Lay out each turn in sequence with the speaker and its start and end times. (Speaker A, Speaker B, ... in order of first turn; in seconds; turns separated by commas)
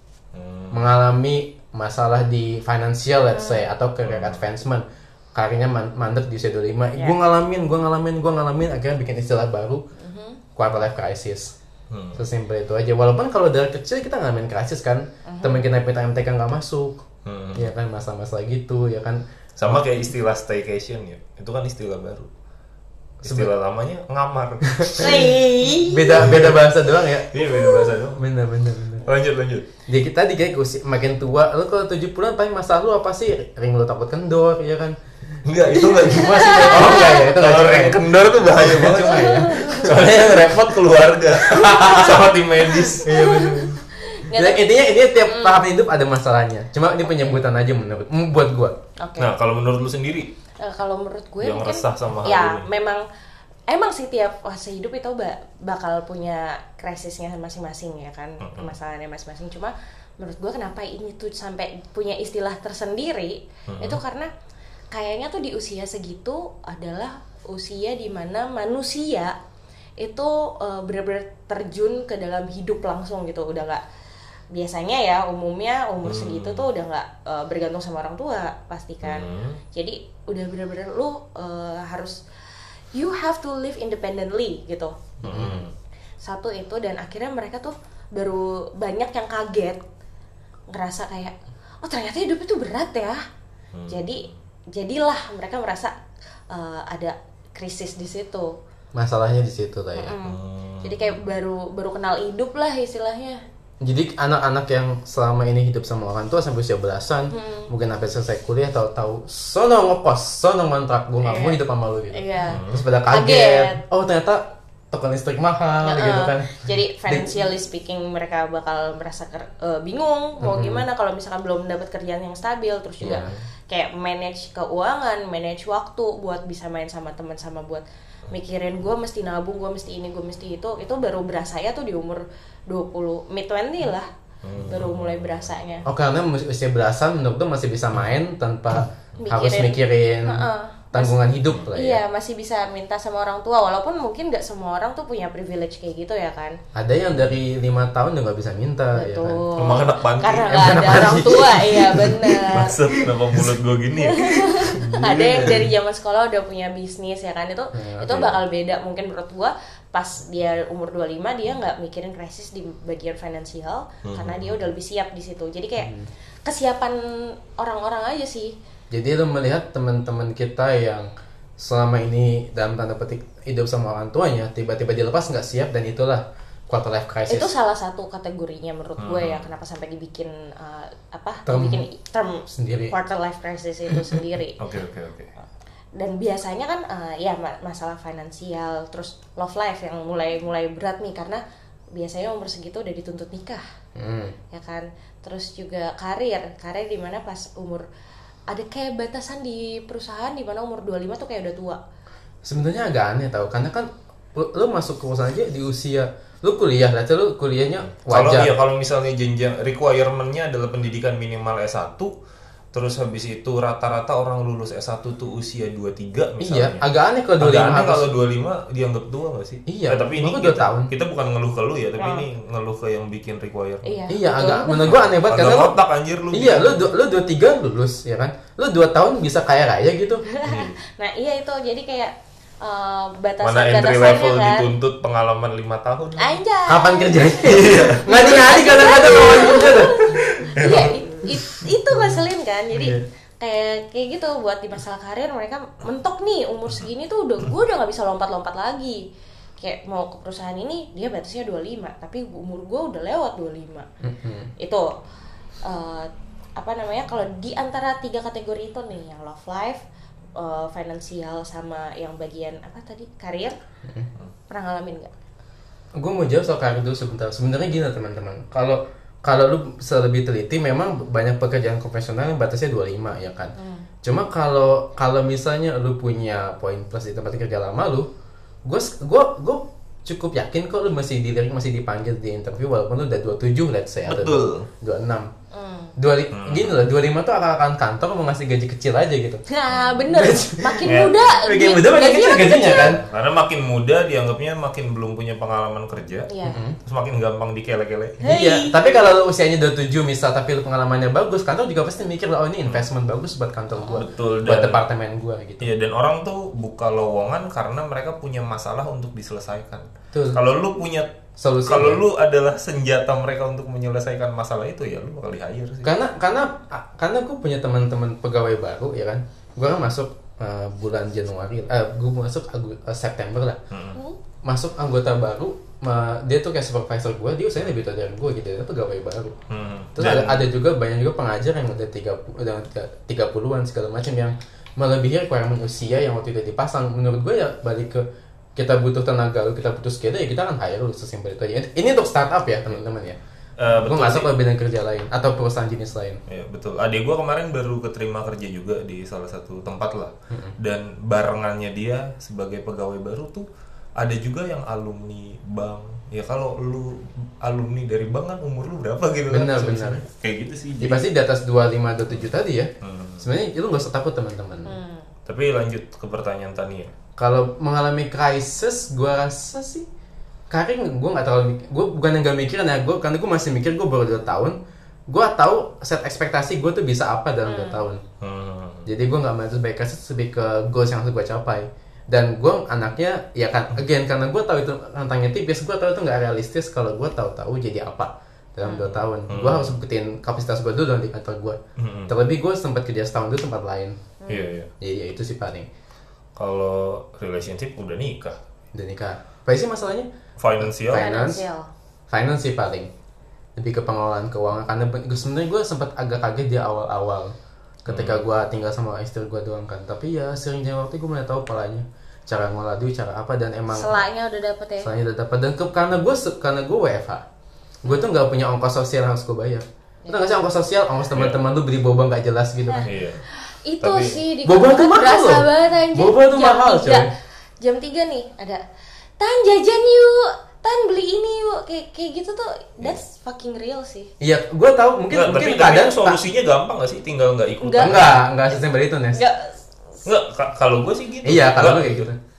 Speaker A: 0.3-0.9, Speaker B: 0.7-9.8, Speaker C: 3.3-3.6, Speaker A: 4.0-4.4, Speaker C: 10.0-10.4, Speaker B: 10.6-11.5, Speaker A: 11.9-12.2, Speaker B: 12.1-17.0, Speaker C: 15.2-15.7, Speaker A: 17.2-17.7, Speaker B: 17.5-19.8, Speaker A: 19.6-22.3, Speaker B: 23.2-23.5, Speaker A: 23.2-25.2, Speaker B: 24.7-27.3, Speaker C: 24.9-26.4, Speaker A: 26.2-26.6, Speaker A: 27.3-28.2, Speaker C: 27.4-27.8, Speaker B: 28.1-29.1, Speaker A: 29.0-29.6, Speaker B: 29.9-35.0, Speaker A: 35.4-43.4, Speaker B: 35.7-40.6, Speaker C: 35.8-37.2, Speaker C: 39.0-39.9, Speaker B: 41.5-48.8, Speaker C: 43.0-44.7, Speaker C: 45.2-45.6, Speaker C: 49.0-49.3, Speaker A: 49.2-50.3, Speaker C: 50.6-53.0, Speaker A: 51.4-52.7, Speaker C: 53.7-64.3, Speaker A: 58.4-58.7, Speaker A: 63.7-64.0, Speaker C: 64.9-69.4, Speaker C: 70.0-73.8, Speaker C: 74.5-82.2, Speaker A: 76.0-76.7, Speaker A: 79.0-79.6, Speaker C: 82.9-85.0, Speaker A: 85.2-85.7, Speaker B: 85.2-85.6, Speaker C: 86.2-89.8, Speaker C: 90.7-93.2, Speaker A: 93.7-94.3, Speaker C: 93.9-95.9, Speaker C: 96.5-98.6, Speaker B: 98.9-100.2, Speaker C: 99.9-103.4, Speaker A: 100.2-101.2, Speaker B: 103.8-117.3, Speaker C: 107.3-107.7, Speaker C: 111.2-111.6, Speaker C: 112.1-113.8, Speaker A: 112.5-112.8, Speaker C: 115.8-134.1, Speaker B: 120.4-120.8, Speaker B: 123.0-123.3, Speaker A: 134.4-135.5, Speaker C: 134.6-135.9, Speaker B: 135.8-142.0, Speaker C: 139.2-141.2, Speaker C: 141.7-146.6, Speaker B: 146.7-149.4, Speaker C: 148.9-152.8, Speaker A: 149.6-150.6, Speaker B: 150.5-152.2, Speaker A: 152.5-155.7, Speaker C: 154.0-165.9, Speaker B: 154.8-155.6, Speaker B: 157.7-158.3, Speaker A: 164.0-164.6, Speaker B: 165.8-166.1, Speaker C: 166.4-168.6, Speaker B: 168.9-177.5, Speaker C: 177.3-184.6, Speaker A: 179.0-179.5, Speaker B: 181.4-181.8, Speaker B: 182.5-182.9, Speaker A: 184.6-185.3, Speaker C: 185.9-191.4, Speaker C: 191.9-193.6, Speaker B: 193.9-194.3, Speaker C: 194.5-197.8, Speaker C: 198.5-201.8, Speaker B: 202.4-208.5, Speaker A: 208.1-212.1, Speaker A: 212.7-216.8, Speaker B: 216.4-218.1, Speaker A: 217.4-224.0, Speaker B: 219.7-220.9, Speaker C: 222.0-222.2, Speaker C: 223.8-225.0, Speaker B: 224.1-225.8, Speaker A: 225.2-226.8, Speaker B: 226.3-230.2, Speaker C: 230.3-234.7, Speaker A: 230.4-230.8, Speaker A: 233.4-236.4, Speaker C: 236.2-249.0, Speaker B: 236.7-240.1, Speaker A: 237.4-238.5, Speaker A: 239.3-240.9, Speaker B: 242.7-243.0, Speaker C: 249.6-253.9, Speaker B: 254.0-254.5, Speaker C: 254.6-254.9, Speaker C: 255.6-259.8, Speaker C: 260.4-263.6, Speaker C: 264.5-265.1, Speaker B: 265.9-278.1, Speaker C: 273.6-273.9, Speaker B: 278.6-285.3, Speaker A: 284.0-284.7, Speaker C: 285.5-285.9, Speaker B: 286.0-289.4, Speaker A: 286.3-286.8, Speaker C: 289.5-293.0, Speaker B: 290.1-293.0, Speaker A: 290.8-291.4, Speaker A: 292.7-296.3, Speaker C: 296.3-296.6, Speaker B: 296.4-296.8, Speaker A: 296.9-298.2, Speaker C: 298.2-299.1, Speaker B: 298.2-305.7, Speaker C: 303.8-304.0, Speaker A: 303.9-304.8, Speaker A: 305.6-311.1, Speaker B: 310.1-310.4, Speaker B: 311.4-312.0, Speaker A: 311.6-315.9, Speaker B: 315.8-323.6, Speaker A: 323.7-324.0, Speaker B: 324.4-329.4, Speaker A: 329.5-330.5, Speaker B: 329.9-346.2, Speaker A: 343.6-344.3, Speaker A: 346.3-361.0, Speaker B: 350.3-350.5, Speaker B: 359.3-360.0, Speaker B: 360.8-364.8, Speaker A: 362.8-363.3, Speaker C: 364.6-365.1, Speaker A: 365.2-366.9, Speaker B: 367.2-369.9, Speaker B: 370.5-374.6, Speaker B: 375.1-378.0, Speaker C: 377.4-377.8, Speaker A: 378.2-378.9, Speaker B: 378.9-394.0, Speaker C: 388.6-388.9, Speaker A: 389.3-389.8, Speaker A: 391.8-392.1, Speaker C: 394.2-394.5, Speaker A: 394.3-394.7, Speaker B: 394.8-395.7, Speaker A: 396.4-398.4, Speaker B: 398.7-401.4, Speaker A: 400.4-401.1, Speaker C: 400.9-401.7, Speaker B: 402.1-402.9, Speaker B: 403.6-407.3, Speaker B: 407.8-414.0, Speaker A: 407.9-408.2, Speaker C: 413.7-414.9, Speaker B: 414.8-417.2, Speaker B: 417.8-422.9, Speaker C: 417.8-418.1, Speaker C: 420.0-420.3, Speaker A: 421.1-421.4, Speaker C: 422.6-427.1, Speaker A: 422.8-423.2, Speaker A: 423.8-424.2, Speaker B: 424.4-427.1, Speaker C: 427.6-428.6, Speaker C: 429.2-434.1, Speaker B: 434.2-436.2, Speaker A: 435.1-438.2, Speaker C: 437.6-438.2, Speaker B: 437.8-439.2, Speaker C: 439.1-439.6, Speaker A: 440.0-442.1, Speaker B: 441.2-442.2